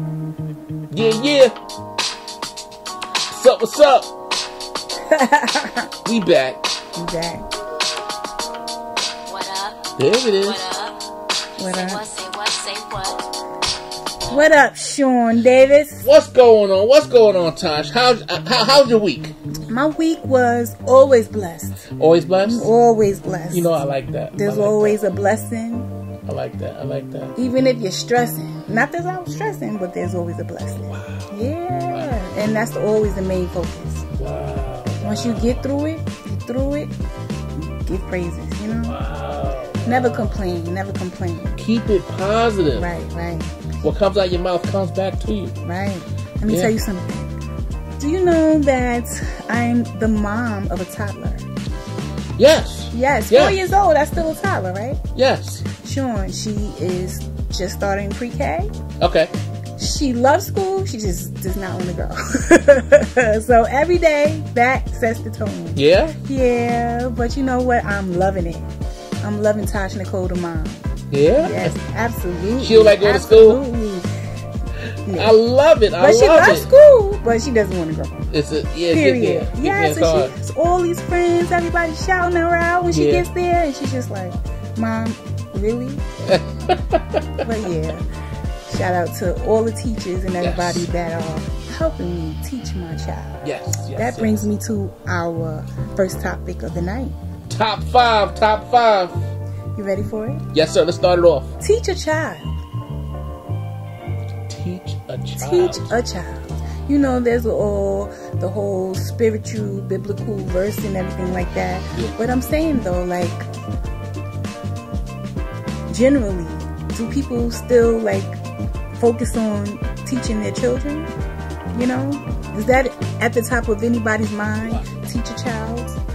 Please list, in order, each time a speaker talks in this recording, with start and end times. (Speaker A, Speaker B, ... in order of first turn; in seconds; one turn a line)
Speaker A: 0.9-1.5
Speaker A: 3.3-4.1
Speaker B: 5.1-5.9
Speaker A: 6.0-6.7
Speaker B: 6.9-7.5
Speaker C: 9.3-11.0
Speaker A: 10.0-10.6
Speaker B: 11.6-12.0
Speaker C: 11.6-13.3
Speaker B: 14.3-16.1
Speaker A: 16.0-19.3
Speaker B: 19.7-21.9
Speaker A: 21.9-22.7
Speaker B: 22.4-25.9
Speaker A: 23.5-25.0
Speaker A: 26.3-27.4
Speaker B: 27.4-34.0
Speaker A: 30.9-31.3
Speaker A: 34.1-35.7
Speaker B: 35.0-36.9
Speaker B: 37.5-39.0
Speaker A: 38.7-40.4
Speaker B: 39.9-41.5
Speaker A: 41.6-42.9
Speaker B: 42.7-43.8
Speaker A: 43.8-45.6
Speaker B: 45.6-47.3
Speaker A: 46.5-46.7
Speaker B: 48.0-51.4
Speaker A: 52.4-53.6
Speaker B: 52.9-55.0
Speaker A: 55.1-55.6
Speaker B: 55.8-58.7
Speaker A: 59.0-59.3
Speaker B: 59.8-68.7
Speaker A: 65.7-66.2
Speaker B: 69.2-74.1
Speaker A: 71.1-71.8
Speaker A: 72.6-73.6
Speaker A: 74.9-76.7
Speaker B: 75.0-75.3
Speaker B: 76.0-78.3
Speaker A: 78.3-80.3
Speaker B: 78.9-86.0
Speaker A: 82.9-83.3
Speaker A: 86.3-87.4
Speaker B: 87.4-88.0
Speaker B: 88.7-93.4
Speaker A: 90.4-90.9
Speaker A: 93.4-94.4
Speaker B: 94.0-97.2
Speaker A: 97.5-99.2
Speaker B: 99.8-100.4
Speaker A: 100.5-101.5
Speaker B: 101.6-102.6
Speaker A: 104.5-105.9
Speaker B: 105.4-113.5
Speaker B: 115.9-118.4
Speaker B: 119.0-121.1
Speaker B: 121.7-126.0
Speaker A: 124.6-124.9